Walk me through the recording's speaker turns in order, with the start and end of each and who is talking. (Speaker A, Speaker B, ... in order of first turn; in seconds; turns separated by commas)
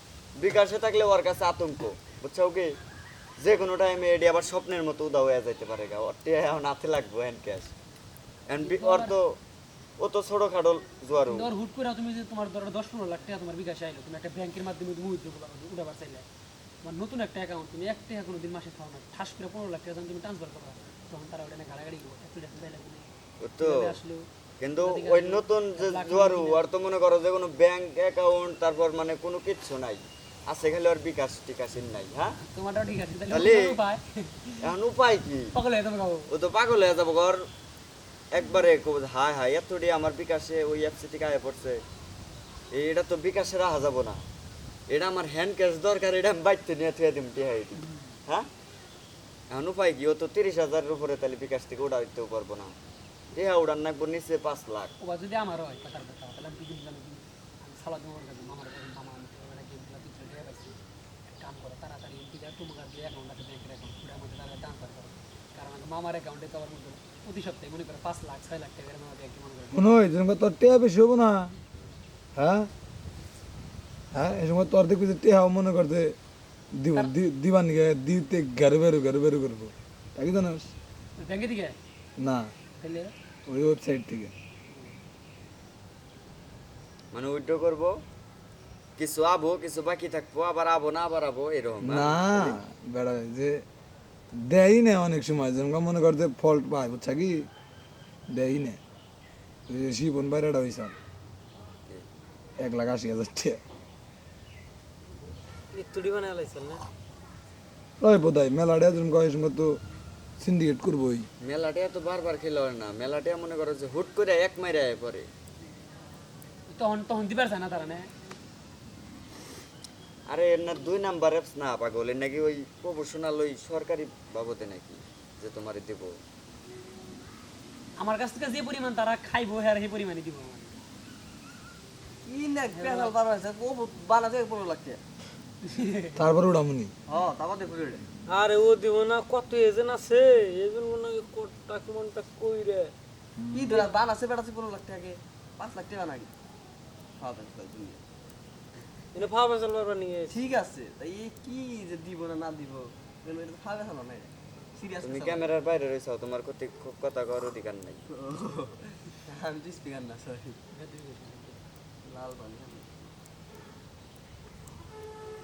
Speaker A: 0.4-2.7, Speaker A: 3.4-7.7, Speaker A: 8.5-9.4, Speaker B: 8.6-9.1, Speaker A: 10.0-11.5, Speaker B: 11.3-16.2, Speaker B: 16.8-26.6, Speaker A: 23.4-23.9, Speaker A: 24.6-32.4, Speaker B: 32.4-34.7, Speaker A: 33.3-33.8, Speaker A: 34.6-35.5, Speaker B: 35.5-36.3, Speaker A: 36.3-37.5, Speaker A: 38.3-41.8, Speaker A: 42.7-44.2, Speaker A: 44.9-48.5, Speaker B: 47.8-48.1, Speaker A: 49.5-52.7, Speaker A: 53.3-54.9, Speaker B: 55.0-60.8, Speaker B: 61.4-69.9, Speaker C: 69.7-71.5, Speaker C: 72.3-72.7, Speaker C: 74.1-76.2, Speaker C: 76.7-80.7, Speaker B: 81.2-81.8, Speaker C: 82.2-82.5, Speaker B: 82.8-83.1, Speaker C: 83.5-84.3, Speaker A: 87.1-88.0, Speaker A: 89.0-92.6, Speaker C: 91.8-93.6, Speaker C: 94.3-97.5, Speaker C: 98.3-98.8, Speaker C: 99.7-101.0, Speaker C: 102.6-103.6, Speaker D: 105.7-106.8, Speaker C: 108.0-109.8, Speaker C: 110.4-111.3, Speaker A: 111.4-115.3, Speaker B: 116.7-118.1, Speaker A: 120.3-126.2, Speaker B: 128.0-130.8, Speaker E: 132.2-135.0, Speaker B: 132.7-133.1, Speaker B: 135.6-136.2, Speaker C: 136.2-136.9, Speaker E: 137.1-138.0, Speaker D: 138.3-142.9, Speaker C: 143.4-143.7, Speaker E: 143.5-146.3, Speaker E: 147.2-148.0, Speaker D: 149.1-150.3, Speaker E: 150.3-155.5, Speaker A: 155.0-158.0, Speaker E: 158.1-160.6, Speaker B: 160.7-161.6, Speaker E: 162.0-162.9